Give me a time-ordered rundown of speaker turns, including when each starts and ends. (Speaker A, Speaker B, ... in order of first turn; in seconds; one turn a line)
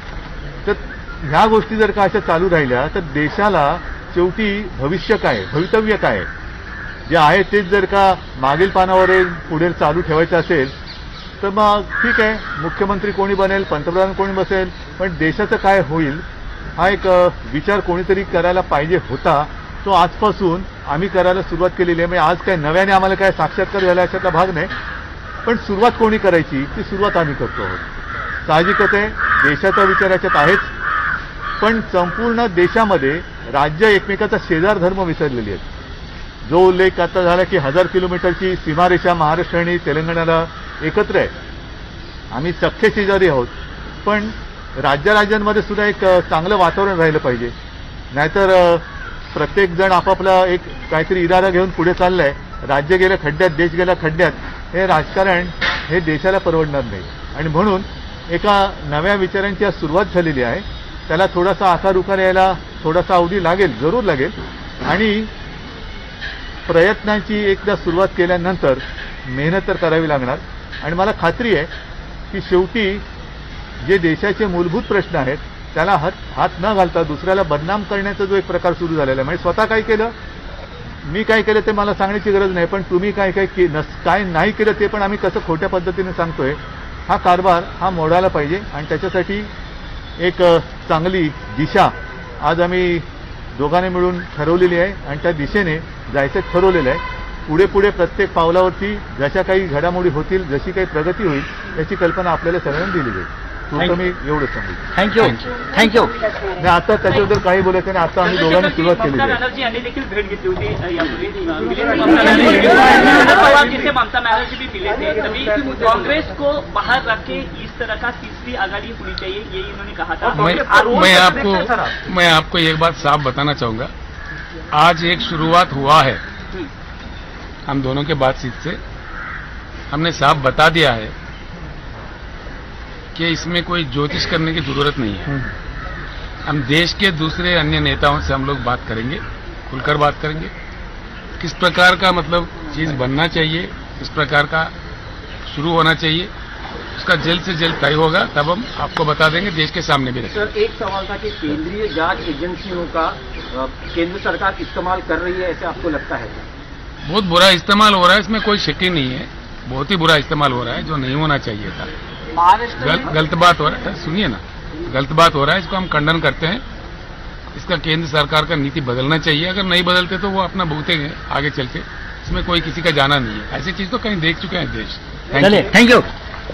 Speaker A: 0.6-6.3
Speaker A: 7.1-10.7
Speaker A: 11.4-16.2
Speaker A: 16.8-24.7
Speaker A: 25.4-27.8
Speaker A: 28.4-30.7
Speaker A: 31.6-35.6
Speaker A: 36.5-41.3
Speaker A: 42.3-43.5
Speaker A: 44.0-47.5
Speaker A: 48.1-64.3
Speaker A: 64.9-65.3
Speaker A: 66.7-71.7
Speaker A: 72.3-73.0
Speaker A: 73.8-80.1
Speaker A: 81.0-89.5
Speaker A: 90.2-104.8
Speaker B: 104.9-106.2
Speaker A: 106.6-109.4
Speaker C: 108.2-121.8
Speaker D: 120.3-123.9
Speaker D: 124.7-126.2
Speaker D: 127.7-128.8
Speaker D: 129.9-131.1
Speaker D: 133.1-135.4
Speaker D: 136.4-140.5
Speaker D: 141.4-144.7
Speaker D: 145.5-146.3
Speaker D: 146.9-150.5
Speaker B: 150.3-156.4
Speaker D: 157.0-161.9
Speaker B: 162.3-163.1
Speaker D: 162.7-166.6
Speaker D: 167.5-175.7
Speaker B: 175.4-176.1